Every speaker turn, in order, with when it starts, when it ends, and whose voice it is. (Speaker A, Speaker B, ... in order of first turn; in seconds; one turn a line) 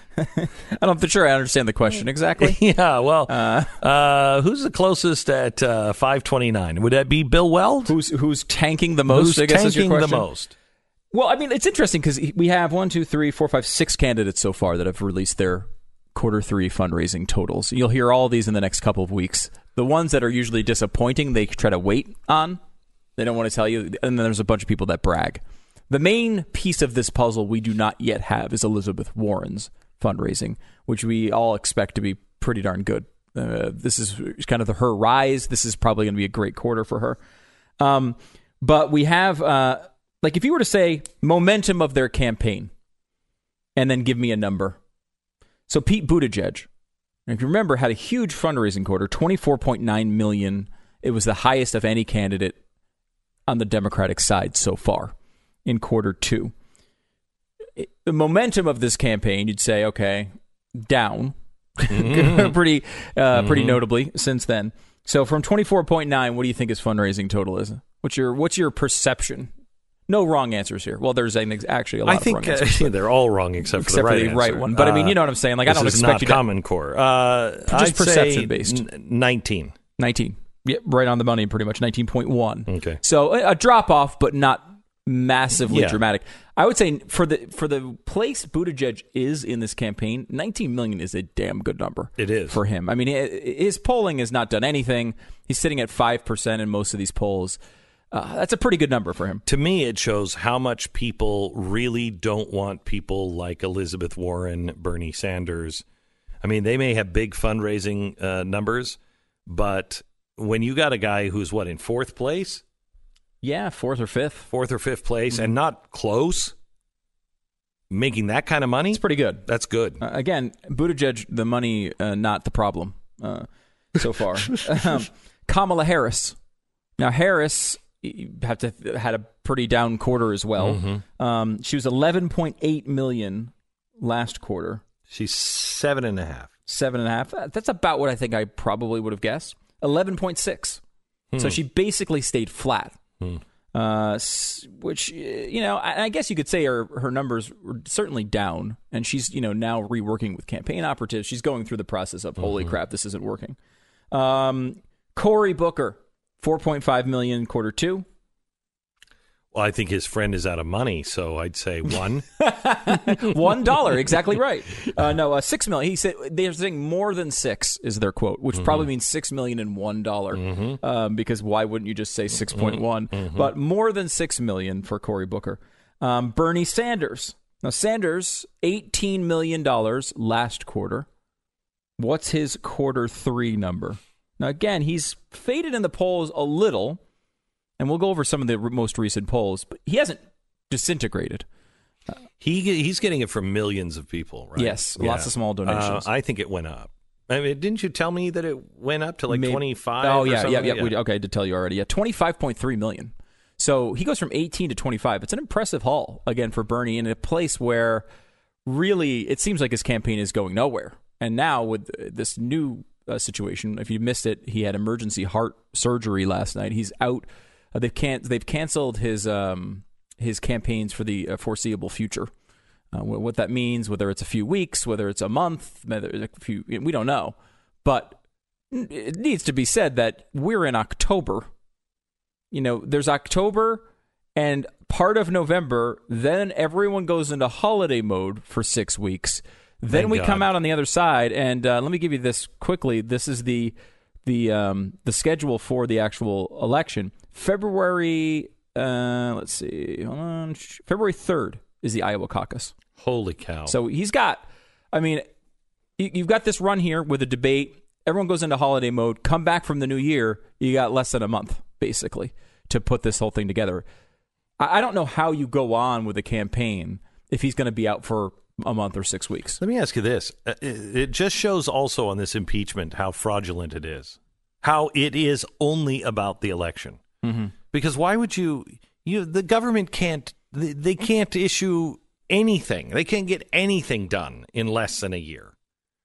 Speaker A: 0.2-2.6
Speaker B: 2.4-7.9
Speaker A: 3.3-3.8
Speaker A: 7.9-10.3
Speaker B: 9.1-10.6
Speaker A: 11.1-22.6
Speaker A: 23.2-37.2
Speaker A: 37.8-42.7
Speaker A: 43.8-44.8
Speaker A: 45.7-46.7
Speaker A: 47.3-52.6
Speaker A: 53.5-55.1
Speaker A: 55.6-56.5
Speaker A: 57.8-69.5
Speaker B: 61.9-62.5
Speaker B: 63.3-63.8
Speaker A: 70.1-72.9
Speaker B: 72.0-79.8
Speaker A: 73.8-76.4
Speaker A: 77.7-78.8
Speaker A: 80.0-97.6
Speaker B: 82.7-83.0
Speaker B: 85.7-86.0
Speaker B: 92.2-92.6
Speaker A: 98.1-99.4
Speaker B: 99.5-105.8
Speaker B: 106.4-112.6
Speaker A: 113.4-114.5
Speaker B: 114.5-116.5
Speaker B: 117.9-120.0
Speaker A: 118.9-119.5
Speaker A: 120.0-126.4
Speaker A: 127.0-134.8
Speaker B: 130.6-131.0
Speaker B: 135.1-136.5
Speaker A: 136.7-140.8
Speaker B: 141.3-141.6
Speaker A: 141.4-143.0
Speaker A: 143.7-153.6
Speaker B: 152.4-152.7
Speaker A: 154.1-158.1
Speaker B: 159.5-162.3
Speaker A: 162.4-181.1
Speaker B: 163.1-163.9
Speaker B: 168.6-168.8
Speaker B: 170.4-170.8
Speaker B: 172.5-173.5
Speaker A: 182.0-187.0
Speaker A: 187.8-190.2
Speaker A: 190.7-191.5
Speaker B: 192.4-200.9
Speaker A: 194.6-196.1
Speaker A: 199.3-208.1
Speaker A: 208.7-222.3
Speaker A: 222.9-228.2
Speaker A: 228.7-231.5
Speaker A: 232.5-233.8
Speaker A: 234.4-252.7
Speaker B: 239.9-240.5
Speaker B: 253.0-253.8
Speaker A: 253.7-255.3
Speaker A: 256.0-263.8
Speaker A: 264.6-269.6
Speaker B: 269.6-277.0
Speaker A: 277.2-277.5
Speaker B: 277.7-285.5